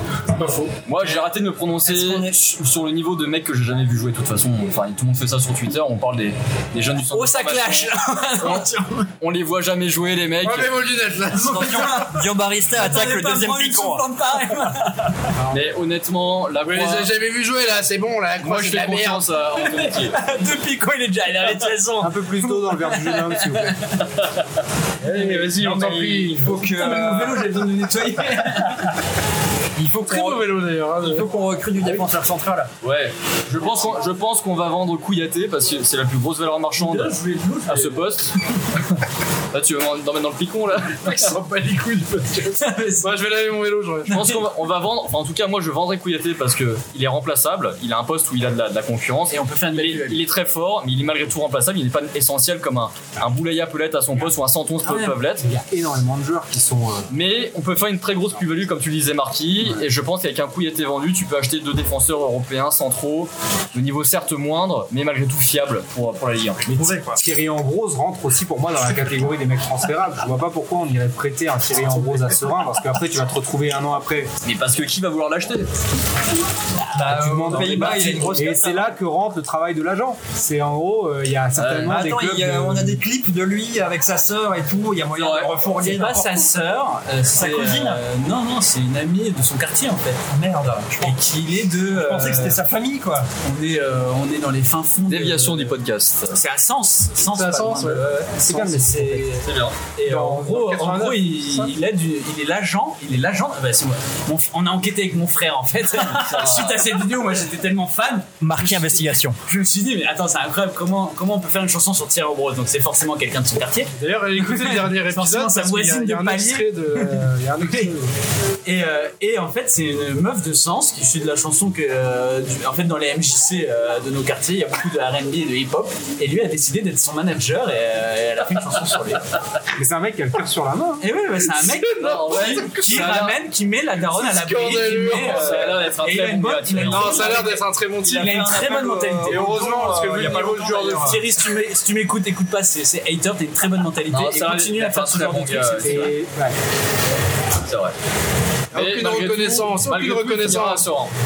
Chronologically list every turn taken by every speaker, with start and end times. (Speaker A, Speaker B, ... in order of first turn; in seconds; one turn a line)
Speaker A: 0.3-0.7
Speaker B: 0.8-8.7
Speaker C: 1.8-2.5
Speaker D: 7.1-9.1
Speaker B: 9.2-10.7
Speaker A: 10.4-12.0
Speaker C: 11.3-14.0
Speaker D: 11.4-15.1
Speaker E: 15.4-15.6
Speaker B: 15.5-17.1
Speaker A: 16.6-19.2
Speaker B: 18.4-20.2
Speaker D: 19.6-24.0
Speaker E: 22.0-23.8
Speaker B: 24.1-24.4
Speaker A: 25.0-26.7
Speaker C: 25.0-27.6
Speaker D: 26.6-28.9
Speaker C: 29.8-32.7
Speaker A: 30.0-31.3
Speaker B: 32.8-37.1
Speaker D: 36.8-38.0
Speaker B: 37.7-38.3
Speaker B: 39.5-41.3
Speaker A: 41.0-44.2
Speaker D: 42.6-43.3
Speaker B: 44.1-55.4
Speaker D: 44.1-44.5
Speaker D: 49.3-50.2
Speaker D: 54.8-55.2
Speaker E: 55.4-57.1
Speaker B: 57.1-66.7
Speaker C: 66.7-67.2
Speaker E: 66.7-74.3
Speaker B: 74.4-75.7
Speaker C: 76.9-78.9
Speaker E: 77.0-83.0
Speaker B: 77.7-78.2
Speaker B: 81.5-82.0
Speaker C: 81.8-86.5
Speaker B: 85.2-85.5
Speaker D: 85.8-90.3
Speaker C: 87.3-88.0
Speaker C: 90.3-91.2
Speaker D: 91.0-92.6
Speaker C: 91.9-93.3
Speaker D: 93.4-95.8
Speaker B: 95.1-96.4
Speaker D: 96.3-117.9
Speaker A: 97.2-98.0
Speaker E: 98.4-99.3
Speaker B: 99.4-99.8
Speaker A: 100.0-101.7
Speaker B: 106.1-106.8
Speaker C: 108.4-109.4
Speaker A: 114.0-118.1
Speaker D: 118.6-129.3
Speaker E: 129.8-131.1
Speaker D: 131.0-139.6
Speaker A: 131.6-133.2
Speaker B: 132.0-133.4
Speaker A: 134.1-135.7
Speaker B: 135.2-137.5
Speaker A: 136.9-138.4
Speaker C: 138.0-141.2
Speaker A: 139.2-141.2
Speaker D: 140.9-146.1
Speaker B: 144.1-146.1
Speaker E: 145.8-146.6
Speaker B: 147.6-147.9
Speaker A: 148.7-150.9
Speaker B: 148.7-151.1